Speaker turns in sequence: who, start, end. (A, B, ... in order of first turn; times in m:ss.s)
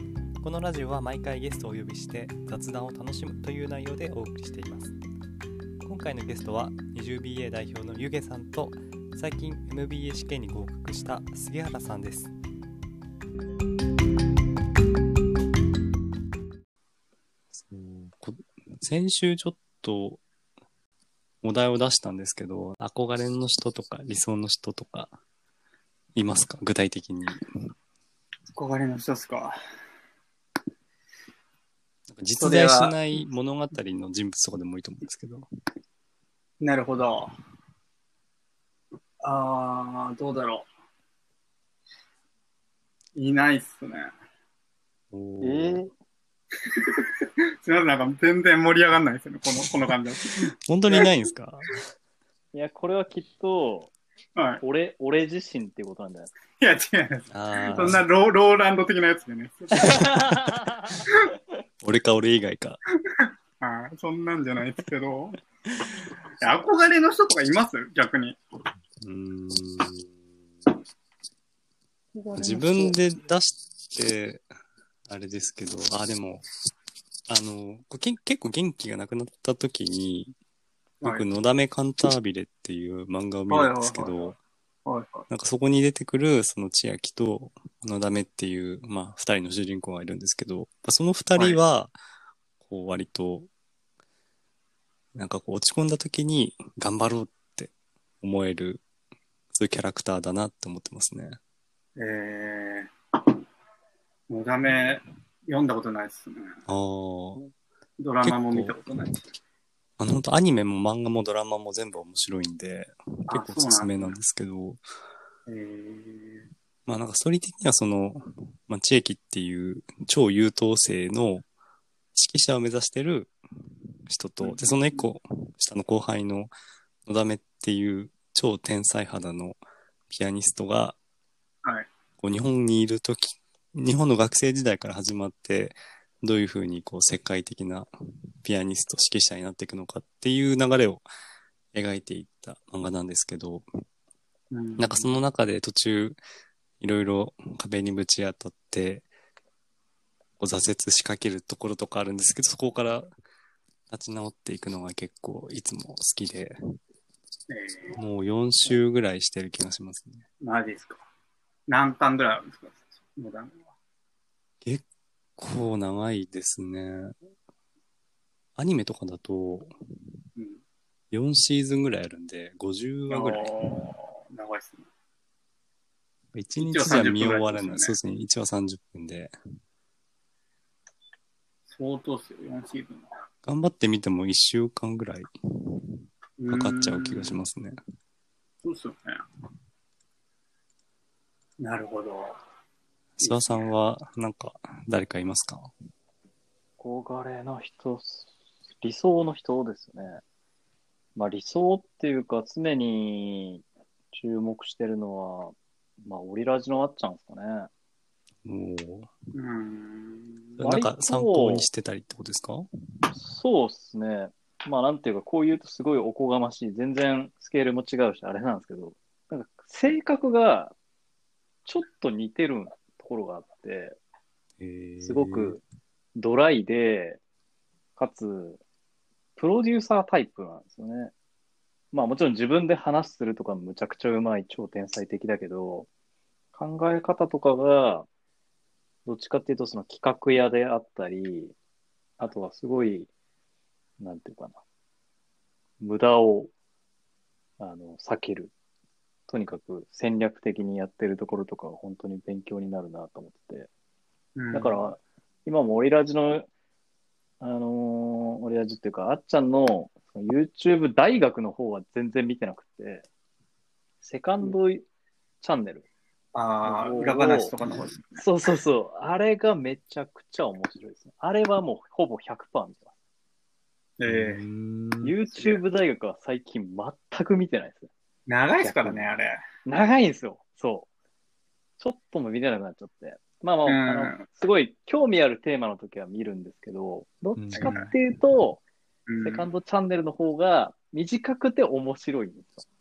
0:00.4-0:04.9 A
0:05.8-0:12.3 A
0:17.5-0:20.2 A
0:21.4-0:25.1 A
0:26.2-0:27.4 A
0:28.5-0:29.6 B
0:32.1-0:35.4 A
0:32.4-0:33.0 B
0:36.6-0:37.3 B
0:39.2-0:40.7 B
0:43.2-0:44.1 B
0:45.1-0:45.9 A
0:45.4-0:45.9 C
0:47.6-0:51.1 B
0:50.7-0:51.8 A
0:52.5-0:53.9 C
0:54.4-0:54.6 B
0:54.6-0:56.3 C
0:56.6-1:00.1 B
0:57.3-0:58.0 A
0:59.8-1:01.0 C
1:01.8-1:02.8 A
1:03.2-1:05.4 B
1:05.7-1:05.9 A
1:06.4-1:08.4 B
1:09.0-1:10.1 A
1:12.1-1:13.0 B
1:12.3-1:14.5 A
1:15.1-1:16.4 A
1:17.3-1:20.3 A
1:21.0-1:24.4 A
1:23.5-1:24.3 B
1:24.9-1:25.2 B
1:25.3-1:32.0 A
1:32.6-1:33.5 A
1:35.2-1:38.8 A
1:39.5-1:41.4 A
1:42.0-1:42.9 B
1:44.3-1:46.6 B
1:46.7-1:47.5 A
1:48.0-1:49.2 B
1:48.2-1:48.8 A
1:50.0-1:54.8 A
1:53.3-1:54.2 B
1:55.5-1:56.5 B
1:56.9-2:01.5 A
2:02.1-2:03.4 A
2:04.1-2:06.5 A
2:04.4-2:05.1 B
2:07.0-2:09.6 A
2:10.1-2:11.0 A
2:12.2-2:17.9 A
2:18.4-2:21.0 A
2:21.7-2:23.7 A
2:24.5-2:25.1 B
2:24.8-2:26.2 A
2:26.8-2:29.1 A
2:30.4-2:33.1 A
2:33.9-2:36.6 A
2:37.5-2:38.0 B
2:38.0-2:40.2 A
2:40.4-2:41.0 B
2:41.7-2:43.6 B
2:45.4-2:47.1 A
2:48.6-2:49.7 A
2:50.4-2:50.6 B
2:51.1-2:53.5 A
2:53.1-2:54.8 B
2:56.3-2:59.3 A
2:56.6-2:58.0 B
3:01.7-3:03.0 B
3:03.4-3:05.9 A
3:06.4-3:07.4 B
3:06.5-3:07.8 A
3:08.6-3:09.2 B
3:11.6-3:12.4 B
3:13.2-3:15.7 A
3:13.2-3:13.7 B
3:16.8-3:20.2 C
3:21.1-3:27.7 C
3:28.4-3:29.1 A
3:29.3-3:30.6 B
3:30.6-3:32.7 A
3:30.6-3:31.7 C
3:33.1-3:40.7 C
3:41.6-3:44.0 C
3:44.6-3:45.6 A
3:45.0-3:45.6 C
3:46.2-3:47.2 C
3:48.0-3:48.6 C
3:49.4-3:51.1 C
3:51.9-3:55.9 C
3:56.5-3:58.1 C
3:59.0-4:01.5 C
4:02.2-4:03.1 C
4:04.0-4:04.6 C
4:05.8-4:06.5 C
4:07.6-4:08.5 C
4:09.3-4:13.7 C
4:14.4-4:14.8 B
4:14.5-4:16.5 C
4:17.4-4:23.1 C
4:24.0-4:24.8 C
4:25.4-4:25.9 C
4:26.3-4:28.2 B
4:26.6-4:27.5 C
4:28.2-4:32.9 C
4:34.0-4:34.4 B
4:34.1-4:35.2 A
4:35.0-4:37.9 C
4:38.3-4:39.4 B
4:38.6-4:39.1 C
4:39.6-4:40.9 C
4:41.8-4:48.6 C
4:43.7-4:44.2 B
4:47.4-4:47.9 A
4:47.6-4:47.9 B
4:49.1-4:49.5 B
4:49.2-4:52.6 C